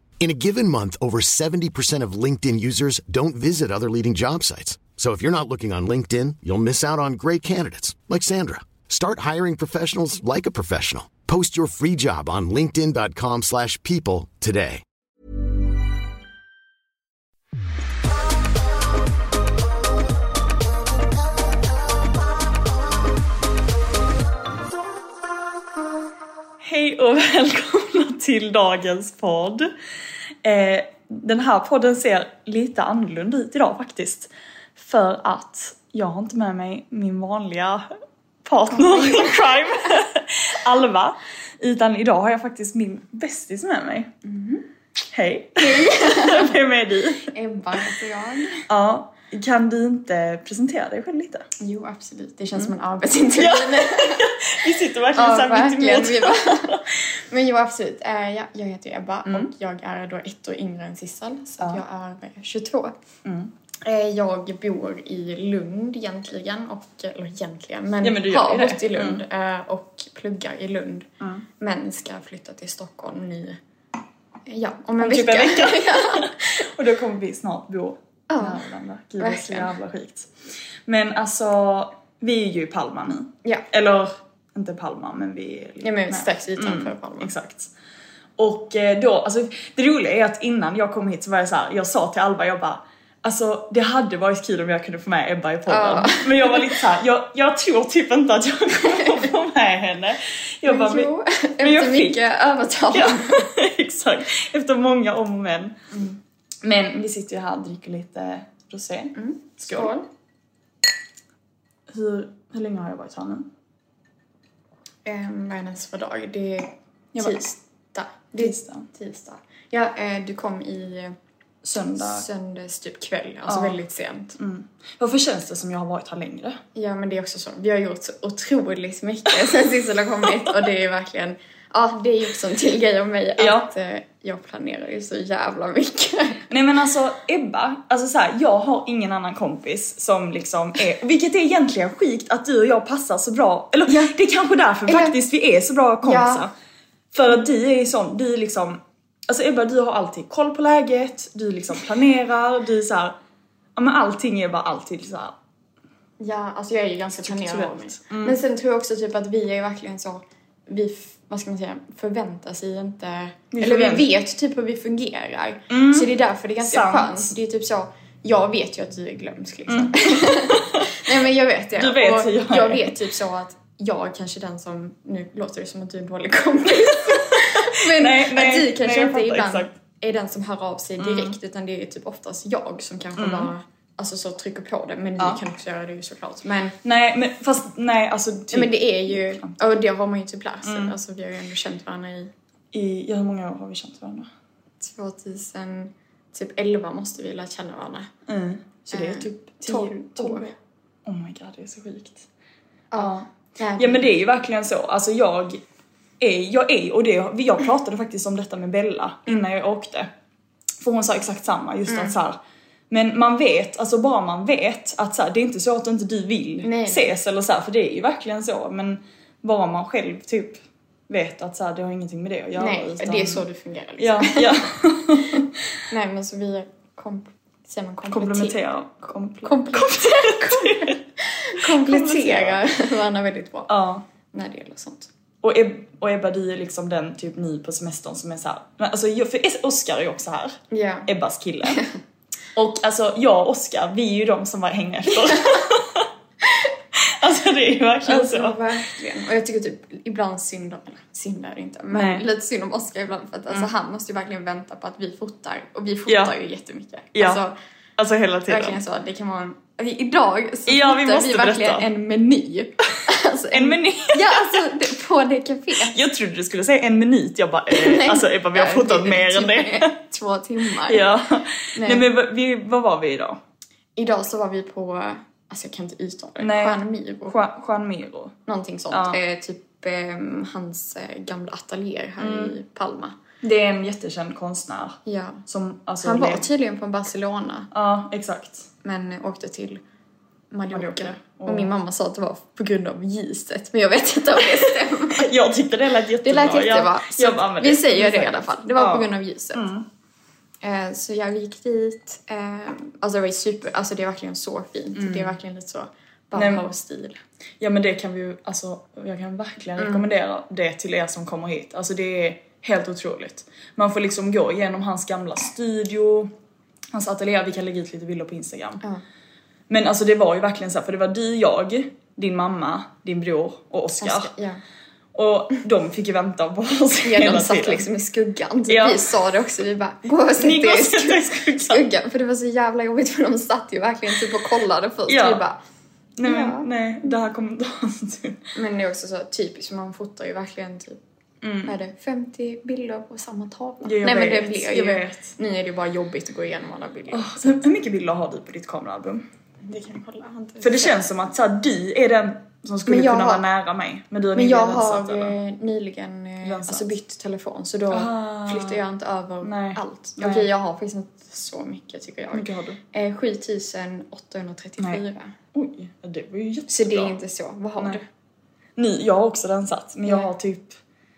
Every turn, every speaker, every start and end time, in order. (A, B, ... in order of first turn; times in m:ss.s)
0:00.2-0:14.8 A
0:26.6-0:29.7 B
0:30.4-0:37.8 B
0:38.4-0:44.1 B
0:38.7-0:39.4 C
0:44.2-0:44.6 C
0:45.1-0:47.3 B
0:45.6-0:46.6 C
0:47.3-0:48.6 C
0:48.7-0:51.4 B
0:51.6-0:54.3 C
0:53.4-0:56.8 B
0:55.1-1:02.9 C
1:03.2-1:03.5 B
1:03.8-1:13.6 C
1:08.0-1:09.2 B
1:14.5-1:16.5 C
1:15.0-1:20.3 B
1:18.3-1:18.6 C
1:19.2-1:19.7 C
1:20.9-1:27.7 B
1:25.8-1:27.3 C
1:28.4-1:41.1 B
1:35.7-1:36.8 C
1:40.6-1:43.4 C
1:41.6-1:42.2 B
1:42.9-1:45.7 B
1:45.9-1:46.2 C
1:46.6-1:49.9 B
1:49.2-1:50.1 C
1:51.9-1:53.5 B
1:55.0-2:01.1 C
1:57.1-1:57.4 B
1:58.4-1:58.9 B
2:01.6-2:02.2 B
2:02.0-2:04.4 C
2:03.5-2:03.8 B
2:04.4-2:06.6 B
2:06.7-2:16.4 C
2:10.3-2:10.6 B
2:13.4-2:13.7 B
2:16.5-2:26.5 B
2:23.9-2:24.1 C
2:24.9-2:25.2 C
2:26.0-2:26.4 C
2:27.1-2:33.2 B
2:33.8-2:35.4 B
2:36.2-3:06.8 C
2:37.2-2:38.4 B
2:43.5-2:44.1 B
2:45.7-2:47.3 B
2:49.7-2:50.9 B
2:51.8-2:52.9 B
2:56.9-2:59.7 B
3:01.0-3:01.4 B
3:03.2-3:03.5 B
3:06.8-3:09.8 B
3:08.5-3:12.3 C
3:10.6-3:10.9 B
3:12.7-3:14.3 B
3:14.8-3:18.1 C
3:18.3-3:22.3 B
3:18.9-3:20.5 C
3:22.9-3:24.1 C
3:23.0-3:23.2 B
3:23.8-3:25.6 B
3:26.2-3:30.1 B
3:30.8-3:32.4 B
3:31.9-3:32.1 C
3:32.9-3:43.4 B
3:36.6-3:37.1 C
3:42.6-3:44.6 C
3:44.0-3:45.4 B
3:45.2-3:48.6 C
3:48.1-3:51.0 B
3:49.4-3:53.7 C
3:51.6-3:52.6 B
3:53.7-3:54.0 B
3:54.3-3:55.1 C
3:55.4-4:01.8 B
4:00.7-4:01.1 C
4:02.5-4:06.0 B
4:07.2-4:08.6 B
4:08.0-4:17.5 C
4:11.9-4:12.2 B
4:16.1-4:16.3 B
4:17.1-4:17.4 B
4:18.0-4:18.8 B
4:18.5-4:26.0 C
4:20.7-4:21.8 B
4:23.5-4:24.7 B
4:25.9-4:29.9 B
4:27.7-4:31.2 C
4:30.9-4:33.4 B
4:31.7-4:32.0 C
4:34.0-4:37.3 C
4:36.4-4:38.4 B
4:38.5-4:43.2 C
4:38.9-4:39.2 B
4:42.2-4:42.5 B
4:43.4-4:46.5 B
4:45.0-4:45.4 C
4:46.0-4:47.7 C
4:47.7-4:48.7 B
4:48.8-4:49.8 C
4:50.5-4:55.3 C
4:50.7-4:51.7 B
4:54.4-4:59.8 B
4:56.2-4:59.6 C
5:00.6-5:07.2 C
5:05.0-5:05.3 B
5:06.3-5:06.7 B
5:07.6-5:16.3 B
5:09.8-5:10.1 C
5:16.9-5:18.8 B
5:19.7-5:24.3 B
5:24.0-5:24.6 C
5:25.1-5:27.8 B
5:27.0-5:35.6 C
5:28.7-5:29.1 B
5:30.4-5:31.8 B
5:35.1-5:35.4 B
5:36.2-5:38.4 B
5:36.2-5:36.7 C
5:38.6-5:41.0 C
5:41.4-5:41.7 B
5:41.6-5:47.6 C
5:43.8-5:45.3 B
5:47.1-5:49.2 B
5:49.6-5:51.1 C
5:50.6-5:55.3 B
5:52.8-5:53.4 C
5:54.3-6:05.3 C
5:56.4-5:56.9 B
5:57.9-5:58.8 B
5:59.4-6:00.5 B
6:02.3-6:02.8 B
6:05.5-6:07.2 B
6:06.7-6:08.0 C
6:08.8-6:10.8 B
6:10.0-6:10.3 C